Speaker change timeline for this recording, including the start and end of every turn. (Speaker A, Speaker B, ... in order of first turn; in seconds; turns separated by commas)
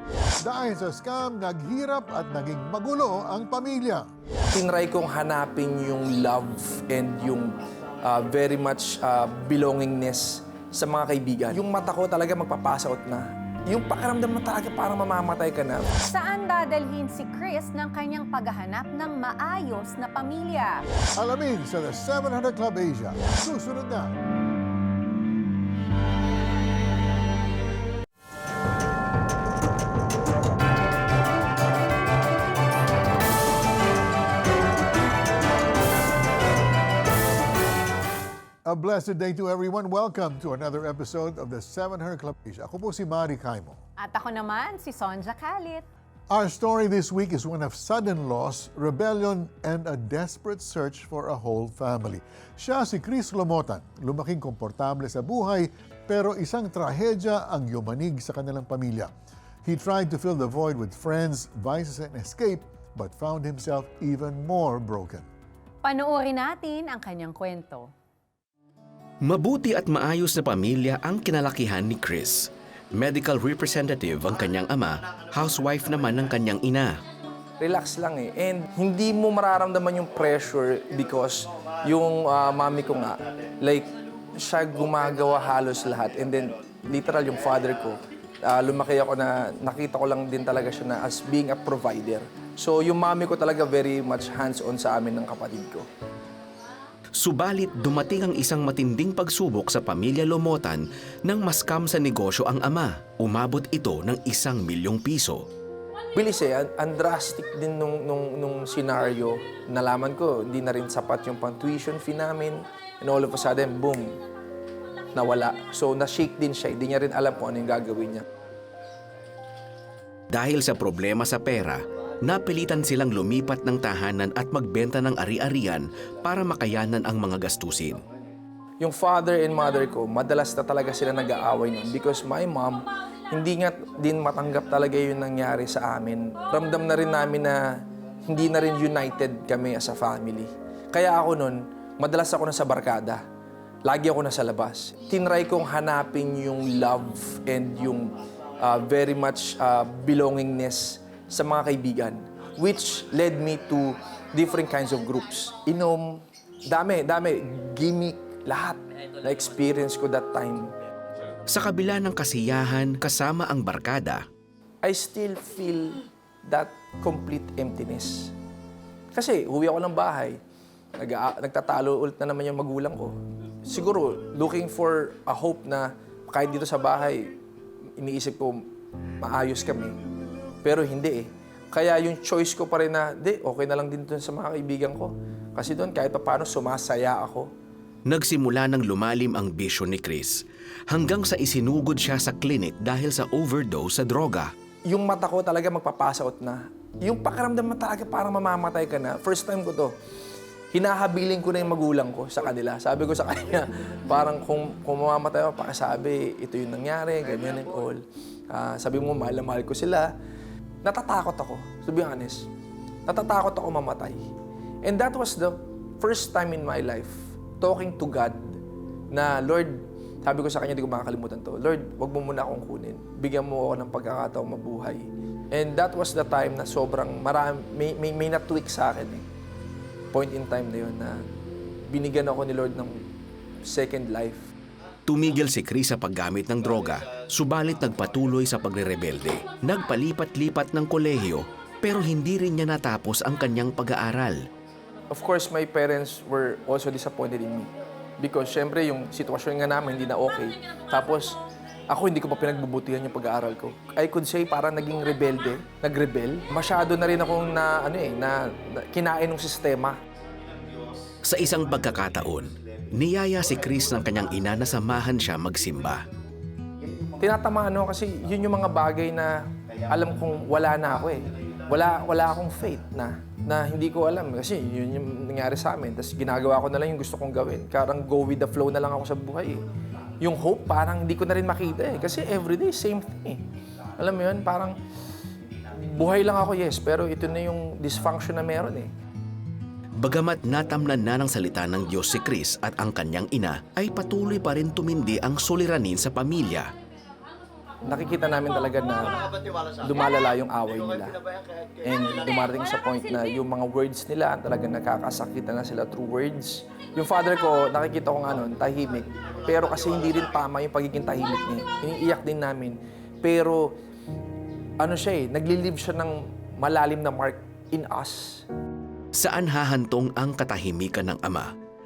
Speaker A: 0.4-4.1, Speaker B: 4.5-15.9, Speaker C: 16.1-20.8, Speaker A: 21.1-24.1, Speaker A: 38.6-43.8, Speaker C: 44.0-45.9, Speaker A: 46.3-59.1, Speaker A: 59.6-65.3, Speaker C: 65.8-67.9, Speaker D: 69.2-77.0, Speaker B: 77.6-95.9, Speaker D: 97.2-105.4, Speaker B: 106.1-114.2, Speaker B: 115.1-118.3, Speaker D: 120.3-128.0, Speaker B: 128.8-143.2, Speaker B: 143.9-160.7, Speaker D: 161.5-164.2, Speaker B: 164.8-168.3, Speaker B: 169.1-170.4, Speaker B: 171.0-177.3, Speaker B: 178.0-178.7, Speaker B: 179.2-180.0, Speaker B: 180.6-187.5, Speaker D: 188.1-194.5, Speaker B: 194.9-199.9, Speaker B: 200.7-210.1, Speaker B: 210.8-212.5, Speaker B: 213.1-214.2, Speaker B: 214.8-218.6, Speaker B: 219.1-229.2, Speaker B: 230.1-231.2, Speaker B: 231.9-233.1, Speaker B: 233.7-234.5, Speaker D: 235.1-244.4, Speaker B: 245.1-251.4, Speaker B: 251.9-260.0, Speaker D: 261.2-266.0, Speaker B: 267.2-269.4, Speaker B: 269.9-279.7, Speaker B: 280.2-283.4, Speaker B: 284.0-284.8, Speaker B: 285.8-288.9, Speaker D: 290.0-296.7, Speaker B: 297.8-301.2, Speaker B: 301.8-313.8, Speaker B: 314.8-318.4, Speaker D: 319.1-321.5